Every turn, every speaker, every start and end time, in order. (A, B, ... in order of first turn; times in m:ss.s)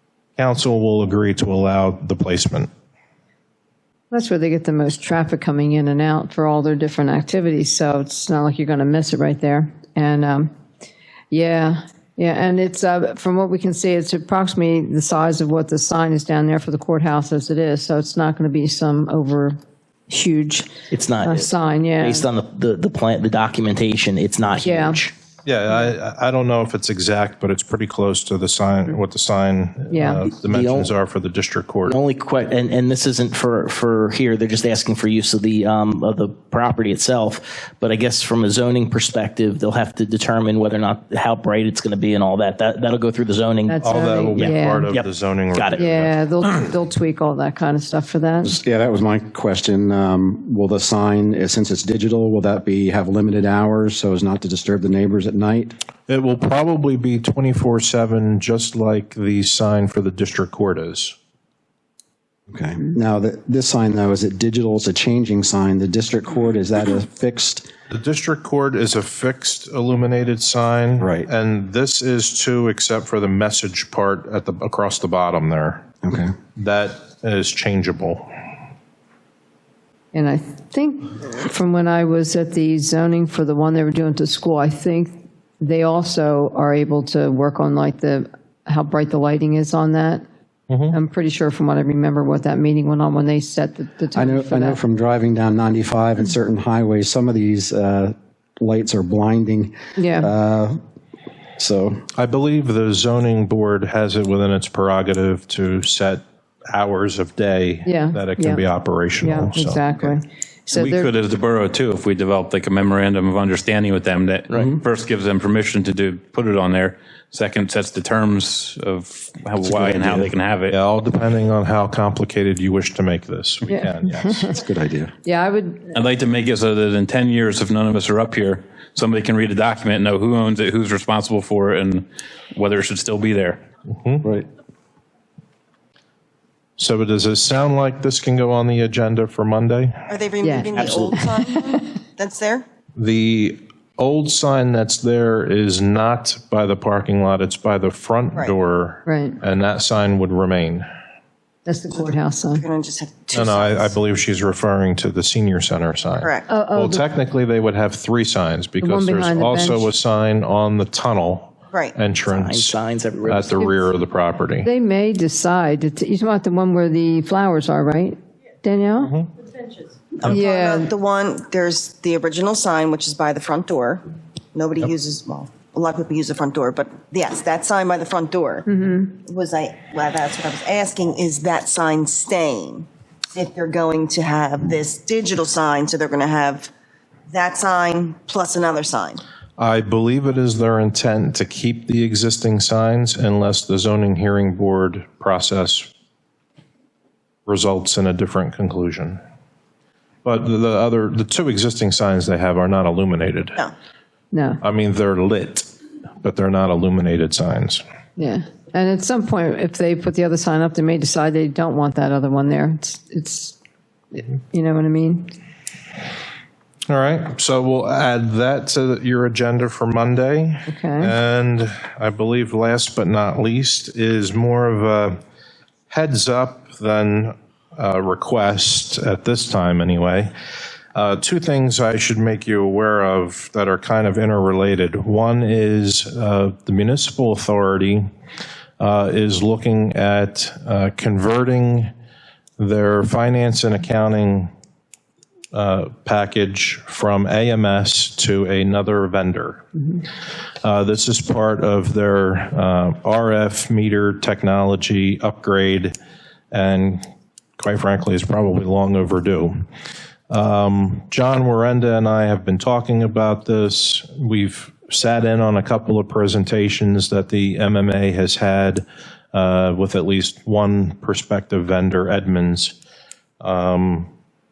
0:00.4-0:02.7 A
0:04.1-0:10.5 B
0:11.3-0:19.6 B
0:20.1-0:22.3 B
0:20.9-0:25.1 C
0:24.6-0:25.0 B
0:25.4-0:32.0 A
0:29.9-0:30.2 B
0:30.4-0:30.9 C
0:31.8-0:45.8 C
0:43.6-0:44.9 B
0:43.8-0:46.2 A
0:45.7-0:48.6 B
0:48.4-0:55.7 D
0:56.1-1:01.1 A
1:02.5-1:07.7 D
1:07.9-1:15.8 A
1:11.0-1:11.3 D
1:16.0-1:16.3 D
1:16.5-1:18.3 A
1:20.1-1:30.2 B
1:30.7-1:31.0 A
1:30.9-1:34.8 B
1:34.1-1:40.8 D
1:40.0-1:40.3 B
1:41.6-1:42.0 D
1:42.1-1:50.2 A
1:47.8-1:48.7 B
1:49.2-1:51.1 B
1:50.7-2:00.7 E
1:54.5-1:54.8 C
1:59.6-2:00.3 C
2:00.7-2:04.5 A
2:03.7-2:04.5 B
2:04.4-2:05.1 D
2:05.2-2:06.0 B
2:05.9-2:13.6 E
2:13.9-2:14.2 A
2:16.8-2:20.0 A
2:20.1-2:22.6 F
2:20.4-2:21.9 B
2:20.8-2:21.1 C
2:23.0-2:30.8 A
2:29.0-2:29.4 B
2:31.6-2:32.6 B
2:32.0-2:33.9 F
2:33.3-2:44.7 A
2:36.2-2:36.5 F
2:36.5-2:37.0 B
2:38.8-2:39.9 B
2:42.3-2:43.7 C
2:44.6-2:49.2 B
2:49.0-2:49.3 A
2:50.2-2:58.6 F
2:50.2-2:50.9 B
2:58.7-2:59.2 B
2:59.2-3:06.7 F
3:07.3-3:09.2 F
3:09.6-3:15.9 A
3:17.5-3:19.2 A
3:20.2-3:23.6 A
3:24.3-3:24.6 B
3:24.6-3:25.7 A
3:26.2-3:27.8 A
3:28.2-3:33.6 B
3:34.1-3:35.3 B
3:36.9-3:45.2 A
3:40.7-3:41.1 B
3:45.9-3:50.3 A
3:50.9-3:58.1 A
3:58.8-4:01.9 A
4:02.6-4:04.5 A
4:05.5-4:09.6 A
4:10.6-4:15.9 A
4:16.5-4:17.0 A
4:17.6-4:19.6 A
4:20.3-4:32.8 A
4:33.4-4:34.1 A